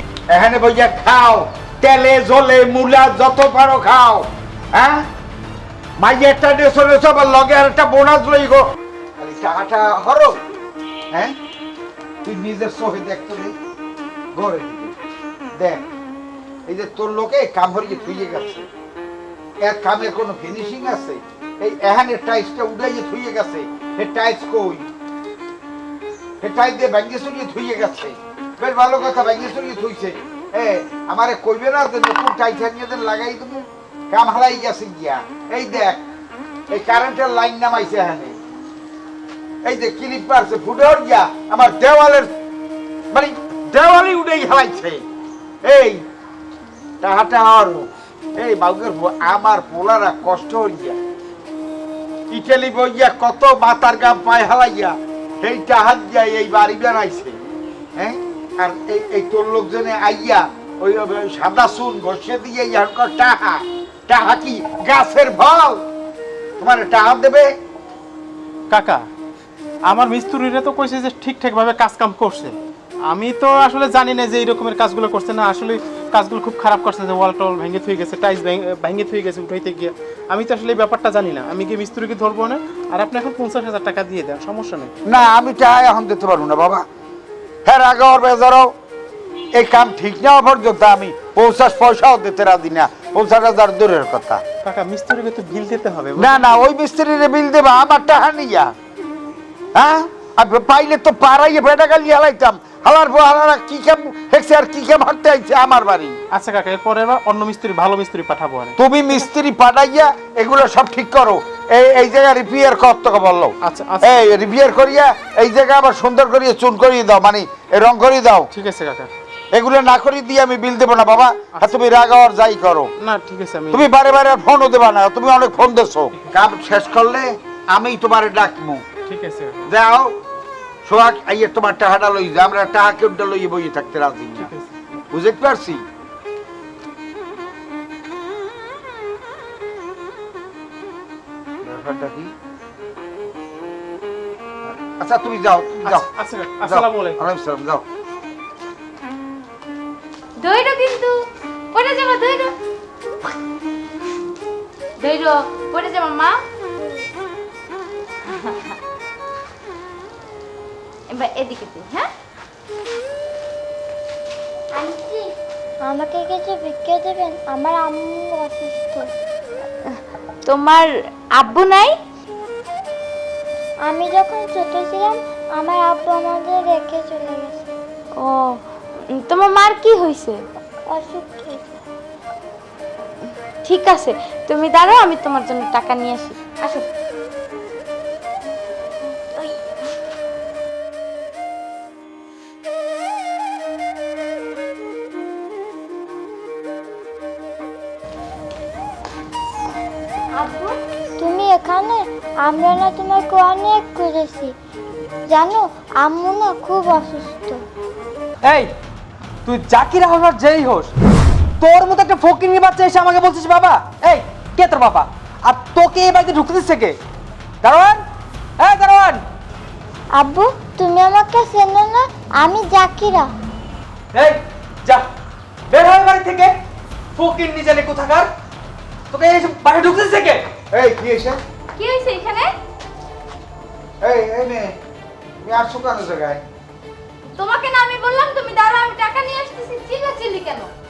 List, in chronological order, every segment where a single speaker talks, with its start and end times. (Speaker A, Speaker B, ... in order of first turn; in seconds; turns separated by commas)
Speaker A: 0.3-5.1, Speaker A: 6.0-8.7, Speaker A: 9.2-10.4, Speaker A: 12.2-13.6, Speaker A: 14.3-14.9, Speaker A: 15.6-15.8, Speaker A: 16.7-18.7, Speaker A: 19.6-24.9, Speaker A: 26.4-36.0, Speaker A: 36.7-38.4, Speaker A: 39.6-42.3, Speaker A: 43.1-45.0, Speaker A: 45.6-46.0, Speaker A: 47.0-51.0, Speaker A: 52.3-57.4, Speaker A: 58.0-65.8, Speaker A: 66.6-67.5, Speaker B: 68.7-69.1, Speaker B: 69.9-84.9, Speaker A: 85.1-86.8, Speaker A: 87.7-88.7, Speaker A: 89.5-94.4, Speaker B: 94.6-96.6, Speaker A: 96.2-98.7, Speaker A: 99.8-106.2, Speaker B: 106.3-109.1, Speaker A: 108.8-118.5, Speaker B: 113.6-114.4, Speaker B: 118.5-119.1, Speaker A: 119.5-122.9, Speaker B: 123.0-123.9, Speaker A: 123.7-128.8, Speaker B: 129.1-129.7, Speaker A: 129.7-130.2, Speaker A: 130.8-134.5, Speaker B: 134.4-134.7, Speaker A: 135.1-135.8, Speaker A: 141.6-142.3, Speaker A: 144.7-146.1, Speaker B: 145.8-147.2, Speaker A: 146.6-147.8, Speaker C: 150.4-151.2, Speaker C: 151.7-152.5, Speaker C: 155.0-156.3, Speaker C: 158.3-158.8, Speaker C: 161.1-162.1, Speaker D: 164.7-165.3, Speaker D: 165.8-169.1, Speaker C: 170.5-171.9, Speaker D: 173.8-177.7, Speaker C: 178.2-178.6, Speaker C: 179.1-180.4, Speaker D: 180.9-181.7, Speaker C: 183.6-186.9, Speaker C: 200.4-200.7, Speaker D: 201.2-204.5, Speaker D: 205.3-207.6, Speaker E: 208.4-208.7, Speaker E: 209.5-210.9, Speaker E: 211.6-217.0, Speaker E: 217.6-218.0, Speaker E: 218.6-219.2, Speaker D: 220.2-223.3, Speaker E: 224.1-225.1, Speaker E: 225.7-226.5, Speaker E: 227.2-228.3, Speaker E: 229.1-230.4, Speaker A: 230.7-231.4, Speaker C: 231.8-232.5, Speaker A: 234.0-234.8, Speaker A: 235.4-236.4, Speaker C: 237.4-240.7